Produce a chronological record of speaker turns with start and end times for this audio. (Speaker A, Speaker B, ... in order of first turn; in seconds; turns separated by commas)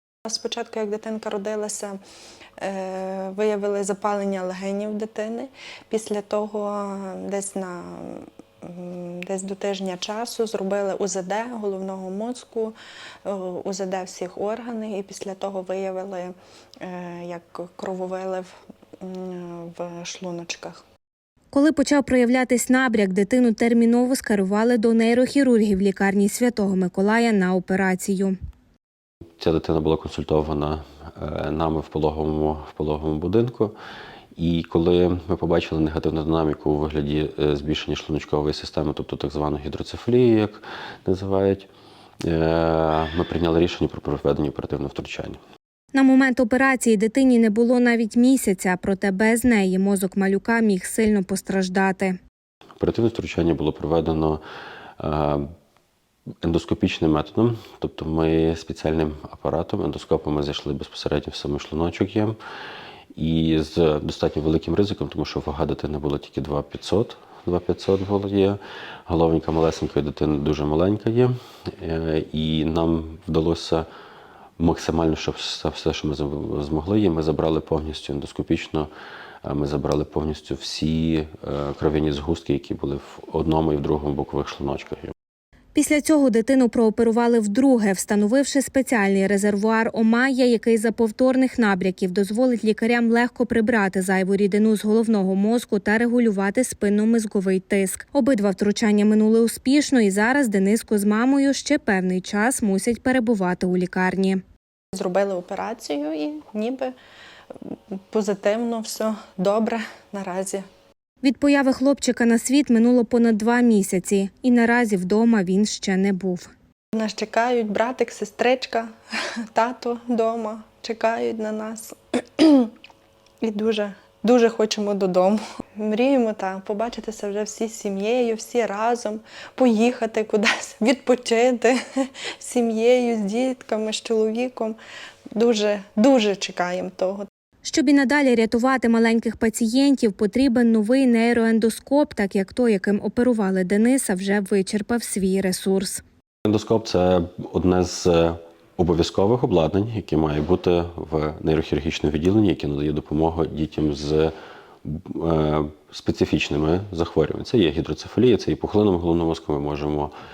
Speaker A: 0.2-2.0, Speaker A: 2.6-12.7, Speaker A: 13.2-18.5, Speaker A: 19.0-20.8, Speaker B: 21.5-28.4, Speaker C: 29.4-33.7, Speaker C: 34.4-41.7, Speaker C: 42.2-45.4, Speaker B: 45.9-52.2, Speaker C: 52.8-54.4, Speaker C: 55.0-55.4, Speaker C: 56.4-62.4, Speaker C: 63.1-73.9, Speaker C: 74.6-78.9, Speaker C: 79.4-85.1, Speaker B: 85.7-104.4, Speaker A: 104.9-106.9, Speaker A: 107.6-110.6, Speaker B: 111.2-116.5, Speaker A: 116.9-118.9, Speaker A: 119.5-122.7, Speaker A: 123.4-134.8, Speaker A: 135.3-137.3, Speaker B: 137.6-146.0, Speaker C: 146.4-154.3, Speaker C: 154.8-160.1